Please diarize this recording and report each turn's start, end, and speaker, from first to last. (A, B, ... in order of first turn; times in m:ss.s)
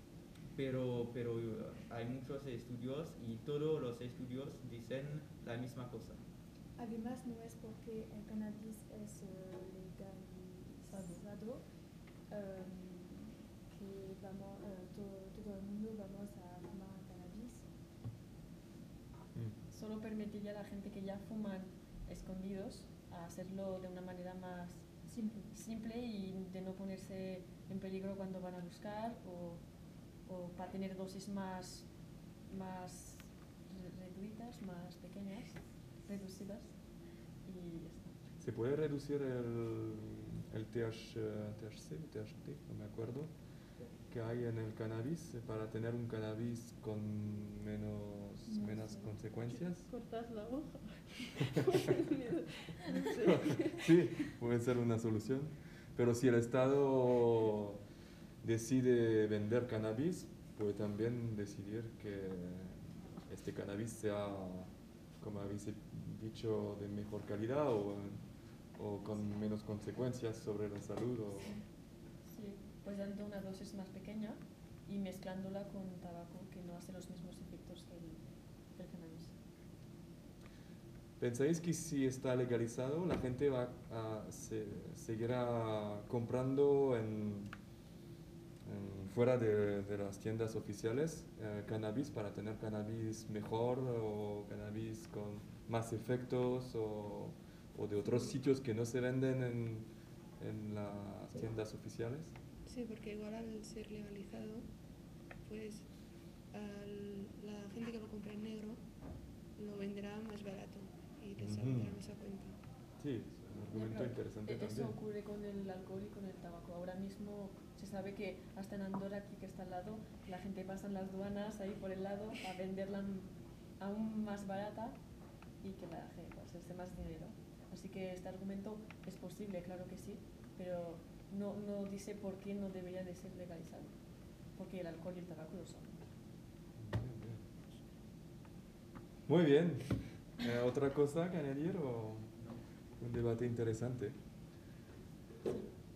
0:00.5-0:06.2 A
0:06.8-0:11.6 B
0:10.9-0:11.2 C
0:12.3-0:17.6 B
0:19.7-0:24.8 C
0:25.0-0:25.5 B
0:25.5-0:29.6 C
0:30.2-0:31.9 C
0:32.4-0:36.8 C
0:37.4-0:38.2 C
0:38.4-0:43.4 D
0:44.0-0:49.9 D
0:48.5-0:49.1 B
0:49.5-0:54.3 E
0:53.2-0:57.8 D
0:58.4-1:11.6 D
1:12.2-1:19.3 C
1:21.2-1:27.5 D
1:28.6-1:39.9 D
1:40.4-1:42.3 D
1:42.6-1:44.7 F
1:45.4-1:49.0 F
1:49.6-1:52.6 F
1:51.4-1:52.0 D
1:53.0-1:54.9 D
1:53.7-2:05.0 C
2:05.6-2:14.0 C
2:14.5-2:16.0 C
2:16.8-2:17.4 D
2:19.2-2:22.4 D
2:23.0-2:24.2 D